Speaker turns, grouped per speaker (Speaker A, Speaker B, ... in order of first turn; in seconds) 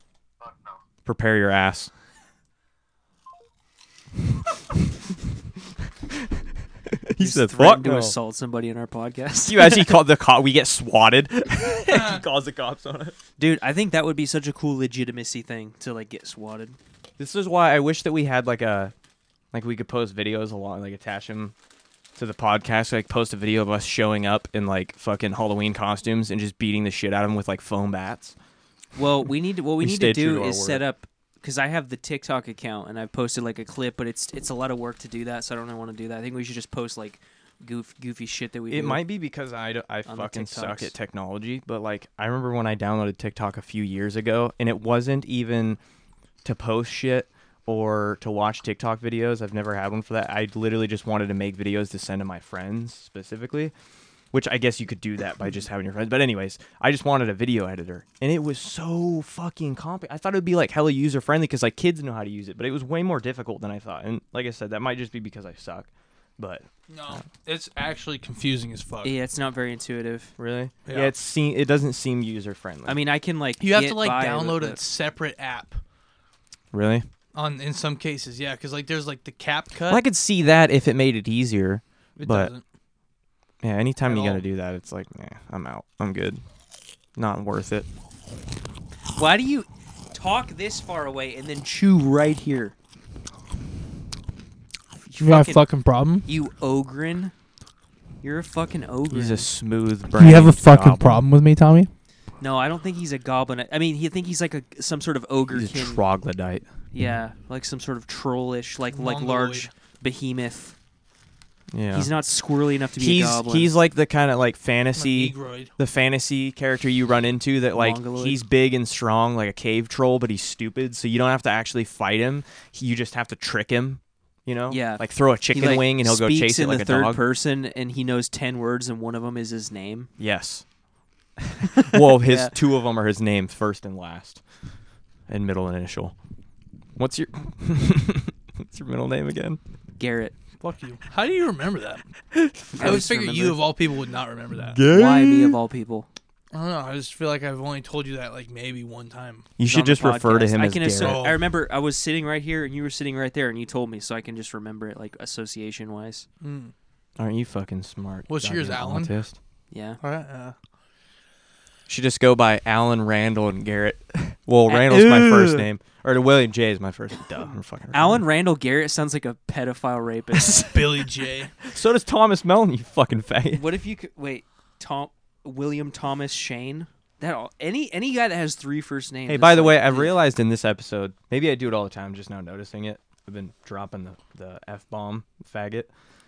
Speaker A: 1.1-1.9, 6.9-8.2, 9.5-13.2, 17.2-18.9, 19.5-21.5, 22.2-28.4, 29.8-30.8, 38.7-45.8, 46.4-53.7, 54.3-67.2, 70.4-73.0, 76.7-77.1, 79.9-82.5, 83.6-86.4, 87.2-87.9, 99.1-101.2, 105.5-106.7, 111.7-112.1, 113.0-127.2, 130.2-130.6, 131.8-134.4, 135.3-136.2, 137.0-139.6, 142.3-143.1, 144.7-145.6, 149.6-151.2, 157.2-159.4, 161.9-168.2, 171.7-173.6, 179.3-185.9
Speaker B: 7.2-9.9, 13.4-16.8, 29.0-39.0, 40.1-40.9, 69.0-70.3, 72.9-74.8, 89.2-92.7, 95.1-95.6, 96.3-97.3, 98.2-99.5, 102.4-106.0, 106.9-110.7, 111.9-113.8, 117.7-118.4, 124.7-130.1, 131.8-132.5, 140.0-140.3, 142.7-143.6, 144.9-146.1, 149.7-156.3, 159.7-160.0, 164.7-165.7, 167.9-171.0, 173.5-180.2
Speaker C: 11.9-12.2, 66.9-69.1, 70.9-71.1, 73.6-75.8, 77.3-80.0, 82.2-82.6, 84.0-84.4, 95.2-96.3, 100.2-101.9, 108.9-109.7, 115.0-115.7, 140.6-142.1, 142.8-144.8, 146.5-149.5, 151.0-151.4, 156.4-156.7, 158.3-159.1, 160.0-160.6, 170.4-171.5